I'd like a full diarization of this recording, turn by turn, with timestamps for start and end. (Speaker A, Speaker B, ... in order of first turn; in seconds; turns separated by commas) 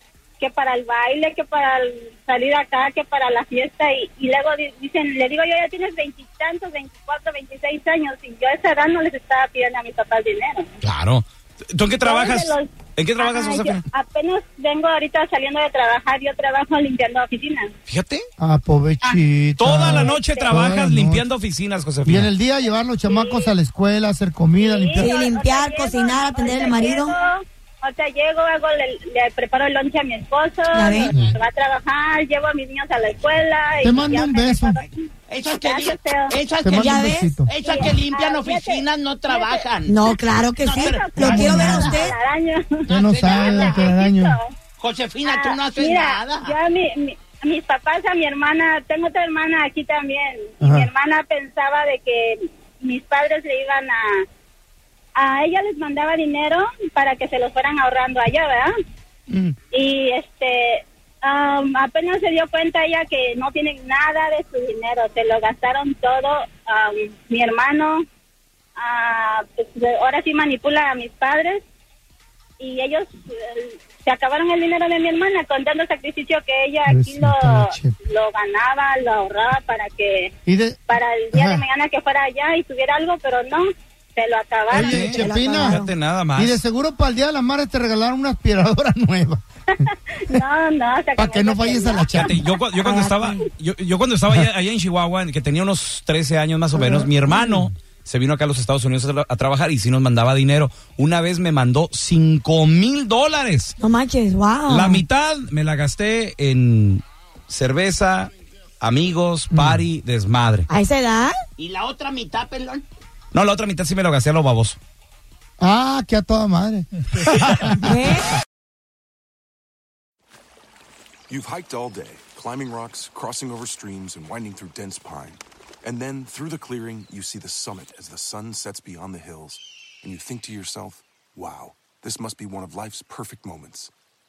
Speaker A: 0.4-10.7, Speaker B: 10.8-13.8, Speaker A: 12.0-17.7, Speaker B: 17.9-18.2, Speaker C: 18.4-21.3, Speaker B: 19.6-22.3, Speaker A: 20.0-20.5, Speaker C: 22.1-25.1, Speaker A: 23.1-23.5, Speaker A: 24.6-36.3, Speaker D: 25.1-27.1, Speaker D: 30.7-31.1, Speaker C: 31.1-31.4, Speaker C: 33.8-34.8, Speaker E: 35.3-42.2, Speaker C: 36.6-37.5, Speaker D: 36.8-37.3, Speaker A: 37.6-39.7, Speaker D: 39.9-42.1, Speaker A: 41.0-44.5, Speaker C: 41.2-41.9, Speaker E: 42.9-43.9, Speaker C: 42.9-44.3, Speaker E: 44.8-46.6, Speaker A: 45.3-54.3, Speaker C: 50.6-50.9, Speaker A: 55.2-58.7, Speaker A: 59.7-68.0, Speaker A: 68.8-71.6, Speaker A: 72.6-80.3, Speaker C: 76.9-77.9, Speaker C: 80.5-80.8, Speaker A: 80.9-85.1, Speaker C: 81.3-81.6, Speaker C: 84.7-85.8, Speaker B: 84.8-86.6, Speaker D: 85.1-85.9, Speaker C: 86.3-89.4, Speaker A: 89.8-92.2, Speaker C: 91.2-92.4, Speaker B: 92.1-103.8, Speaker D: 92.8-93.5, Speaker C: 96.7-97.7, Speaker D: 103.8-105.0, Speaker B: 104.7-110.7, Speaker C: 109.5-109.8, Speaker D: 110.7-111.4, Speaker E: 111.6-112.8, Speaker B: 113.3-114.8, Speaker C: 115.6-117.9, Speaker D: 117.8-118.2, Speaker F: 121.3-133.9